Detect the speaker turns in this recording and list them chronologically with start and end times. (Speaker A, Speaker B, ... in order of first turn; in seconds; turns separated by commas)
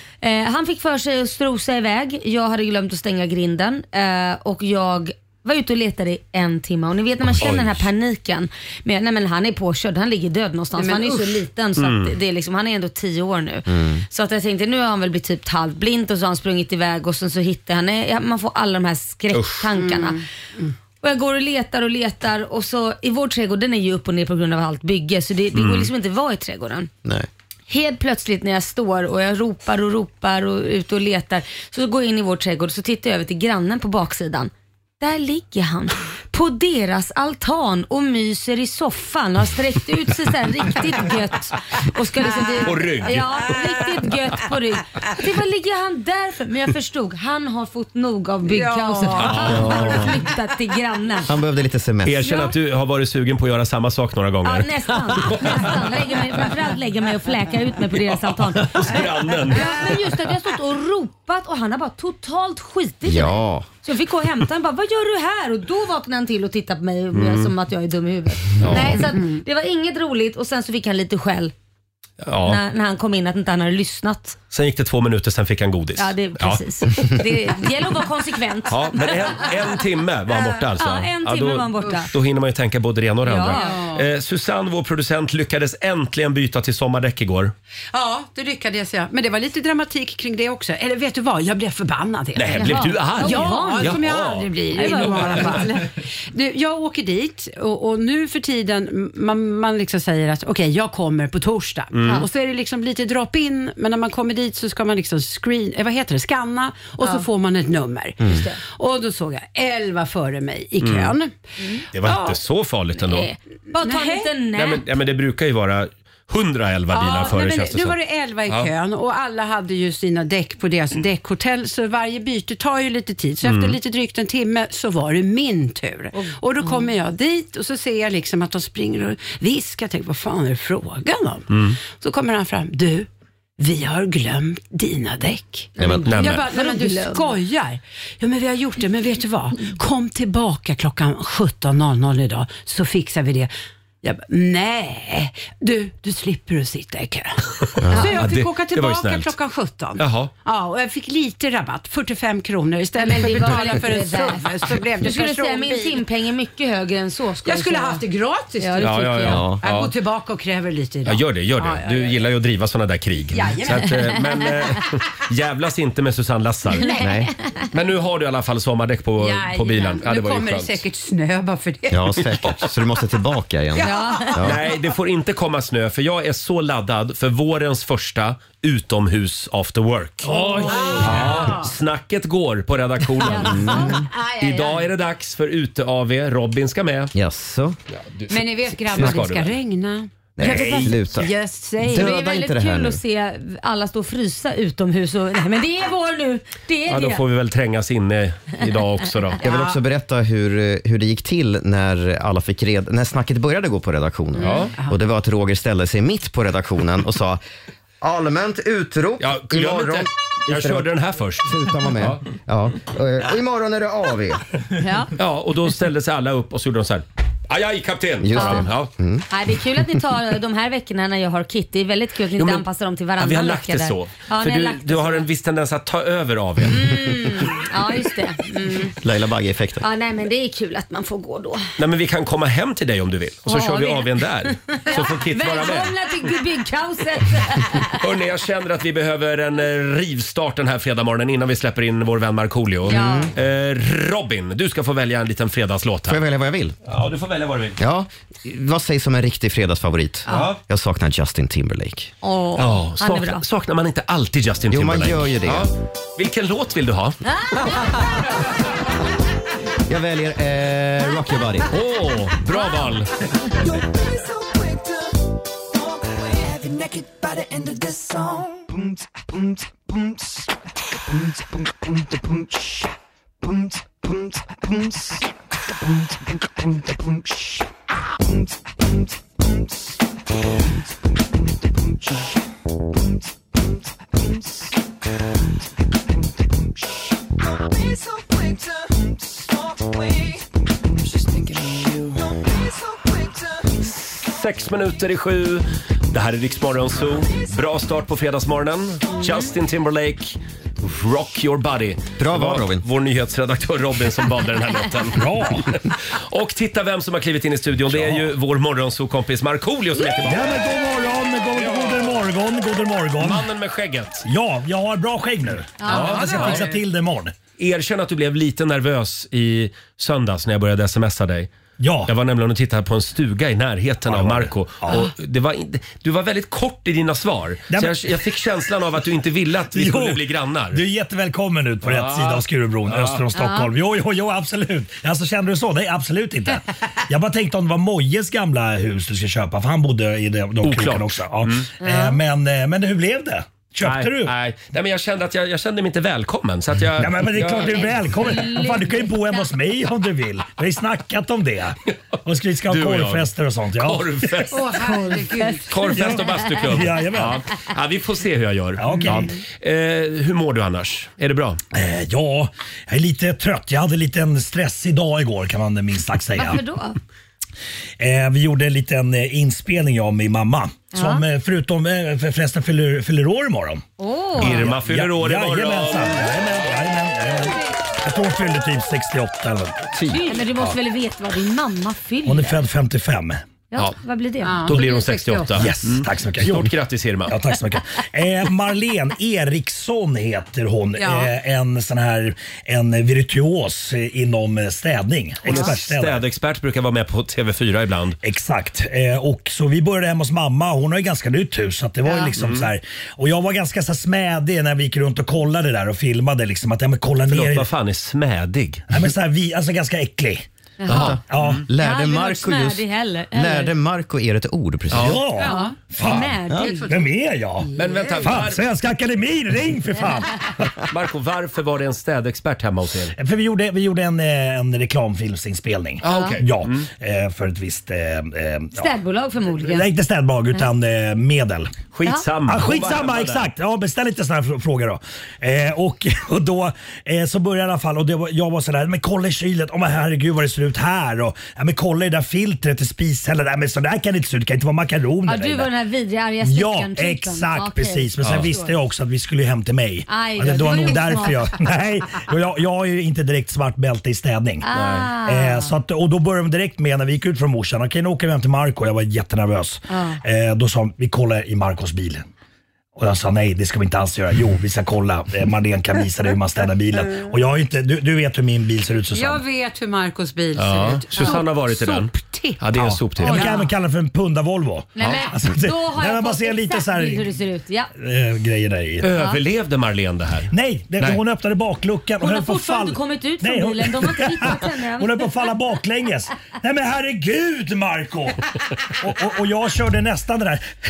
Speaker A: 0.2-20.2, Speaker B: 7.4-7.7, Speaker C: 10.8-11.4, Speaker B: 11.8-12.2, Speaker D: 13.7-14.0, Speaker B: 19.3-19.6, Speaker C: 19.8-20.7, Speaker A: 21.0-26.9, Speaker B: 25.6-25.9, Speaker A: 27.7-51.3, Speaker B: 42.6-43.6, Speaker C: 48.5-49.6, Speaker B: 49.2-49.9, Speaker D: 49.4-50.2, Speaker D: 51.3-52.3, Speaker B: 52.0-55.9, Speaker A: 54.5-58.8, Speaker B: 58.3-59.9, Speaker A: 59.5-71.5, Speaker D: 63.0-63.7, Speaker B: 67.1-67.5, Speaker B: 68.6-69.0, Speaker C: 69.1-69.4, Speaker B: 72.2-72.6, Speaker A: 72.5-74.4, Speaker B: 74.5-77.1, Speaker A: 76.0-79.6, Speaker B: 78.7-87.5, Speaker A: 80.8-82.1, Speaker C: 81.8-82.1, Speaker A: 83.2-83.7, Speaker C: 83.5-84.1, Speaker C: 87.9-111.4, Speaker B: 92.4-95.6, Speaker A: 92.6-94.0, Speaker A: 94.8-95.4, Speaker B: 101.9-102.2, Speaker A: 108.2-108.6, Speaker B: 110.8-111.2, Speaker A: 111.6-111.8, Speaker B: 111.9-113.3, Speaker C: 112.0-112.4, Speaker A: 113.0-114.8, Speaker C: 113.8-114.3, Speaker B: 114.5-118.0, Speaker C: 116.9-143.5, Speaker B: 123.4-123.8, Speaker A: 126.1-126.9, Speaker B: 131.5-131.8, Speaker A: 135.8-137.3, Speaker D: 135.8-136.1, Speaker B: 136.1-136.5, Speaker C: 144.0-156.0, Speaker D: 147.8-148.2, Speaker B: 148.0-149.3, Speaker B: 150.0-150.3, Speaker A: 153.0-158.0, Speaker C: 157.4-162.2, Speaker A: 158.6-159.4, Speaker B: 158.8-159.9, Speaker D: 159.3-159.6, Speaker B: 161.1-166.9, Speaker C: 163.3-164.9, Speaker C: 166.7-167.2, Speaker A: 166.8-167.1, Speaker D: 167.0-167.3, Speaker B: 167.7-170.8, Speaker C: 169.2-172.3, Speaker D: 171.9-174.6, Speaker C: 173.8-174.5, Speaker A: 173.8-174.3, Speaker B: 174.4-187.1, Speaker C: 180.2-181.7, Speaker A: 180.5-181.1, Speaker A: 183.2-184.0, Speaker D: 183.3-184.1, Speaker C: 183.8-184.8, Speaker D: 187.1-187.8, Speaker B: 187.9-189.5, Speaker C: 188.3-192.2, Speaker D: 190.4-193.0, Speaker B: 190.4-190.9, Speaker A: 191.9-197.2, Speaker B: 196.9-199.6, Speaker D: 199.4-207.4, Speaker B: 204.4-204.7, Speaker C: 204.4-205.0, Speaker D: 208.0-210.9, Speaker B: 209.2-212.2, Speaker D: 211.4-214.4, Speaker A: 214.8-215.1, Speaker B: 215.2-218.9, Speaker D: 218.2-219.2, Speaker A: 218.4-218.7, Speaker A: 219.3-225.3, Speaker B: 222.4-222.7, Speaker B: 223.2-227.0, Speaker A: 226.7-228.9, Speaker D: 229.0-229.8, Speaker A: 229.8-231.7, Speaker B: 231.8-235.9, Speaker A: 233.5-238.0, Speaker B: 238.0-246.2, Speaker A: 242.9-243.3, Speaker D: 242.9-243.3, Speaker D: 246.1-246.8, Speaker B: 246.9-247.8, Speaker D: 247.8-252.1, Speaker B: 250.3-250.6, Speaker A: 252.2-253.4, Speaker B: 252.6-257.2, Speaker D: 254.7-255.7, Speaker A: 257.5-257.8, Speaker D: 259.9-261.7, Speaker B: 261.7-263.1, Speaker A: 262.5-262.9, Speaker B: 293.8-310.6, Speaker D: 302.2-302.9, Speaker E: 305.1-305.7, Speaker E: 307.9-308.2, Speaker E: 310.2-313.5, Speaker B: 311.6-312.1, Speaker B: 313.2-314.3, Speaker E: 314.2-317.3, Speaker A: 315.8-316.6, Speaker B: 315.9-316.7, Speaker B: 317.6-321.5, Speaker E: 321.8-322.1, Speaker B: 322.1-330.8, Speaker E: 324.1-325.1, Speaker E: 327.7-328.1, Speaker E: 329.7-344.3, Speaker B: 331.8-333.2, Speaker A: 333.4-333.7, Speaker B: 340.6-341.6, Speaker A: 341.8-342.2, Speaker B: 343.8-348.1, Speaker E: 347.0-354.5, Speaker A: 348.2-349.5, Speaker B: 352.7-355.0, Speaker C: 354.5-355.8, Speaker A: 355.4-356.5, Speaker B: 355.7-361.6, Speaker E: 355.9-357.4, Speaker E: 358.8-359.3, Speaker E: 361.7-366.6, Speaker A: 366.4-367.0, Speaker E: 368.0-373.9, Speaker A: 370.9-371.2, Speaker A: 374.0-374.7, Speaker B: 374.4-376.2, Speaker E: 374.4-379.9, Speaker B: 380.0-380.7, Speaker A: 380.1-382.6, Speaker E: 382.3-383.4, Speaker A: 383.7-384.7, Speaker C: 384.4-385.7, Speaker B: 384.7-387.3, Speaker E: 385.6-386.7, Speaker E: 387.3-396.2, Speaker C: 391.0-391.3, Speaker B: 395.5-398.2, Speaker E: 398.2-407.7, Speaker B: 402.4-402.7, Speaker B: 407.3-408.9, Speaker E: 408.9-410.5, Speaker A: 410.8-411.2, Speaker B: 410.9-411.6, Speaker D: 410.9-415.2, Speaker E: 411.3-411.7, Speaker A: 411.8-413.7, Speaker B: 414.9-415.2, Speaker E: 414.9-417.7, Speaker C: 415.4-415.8, Speaker A: 415.4-416.9, Speaker C: 416.5-418.4, Speaker B: 417.8-418.6, Speaker E: 418.2-420.8, Speaker B: 420.9-423.1, Speaker E: 423.2-428.9, Speaker B: 426.0-426.9, Speaker A: 426.1-426.4, Speaker A: 428.8-429.9, Speaker E: 429.6-431.7, Speaker B: 431.9-433.5, Speaker E: 432.5-445.7, Speaker A: 445.3-448.7, Speaker E: 446.4-462.3, Speaker B: 448.2-448.5, Speaker A: 450.1-451.5, Speaker A: 454.6-455.7, Speaker B: 454.7-455.1, Speaker A: 459.9-460.2, Speaker E: 463.0-469.4, Speaker C: 469.1-472.6, Speaker B: 470.6-473.5, Speaker A: 471.2-471.5, Speaker E: 472.7-477.4, Speaker A: 473.2-473.7, Speaker C: 473.2-473.6, Speaker A: 475.0-477.9, Speaker E: 478.0-479.1, Speaker B: 479.0-481.2, Speaker A: 479.1-479.4, Speaker E: 480.5-490.7, Speaker A: 482.2-485.3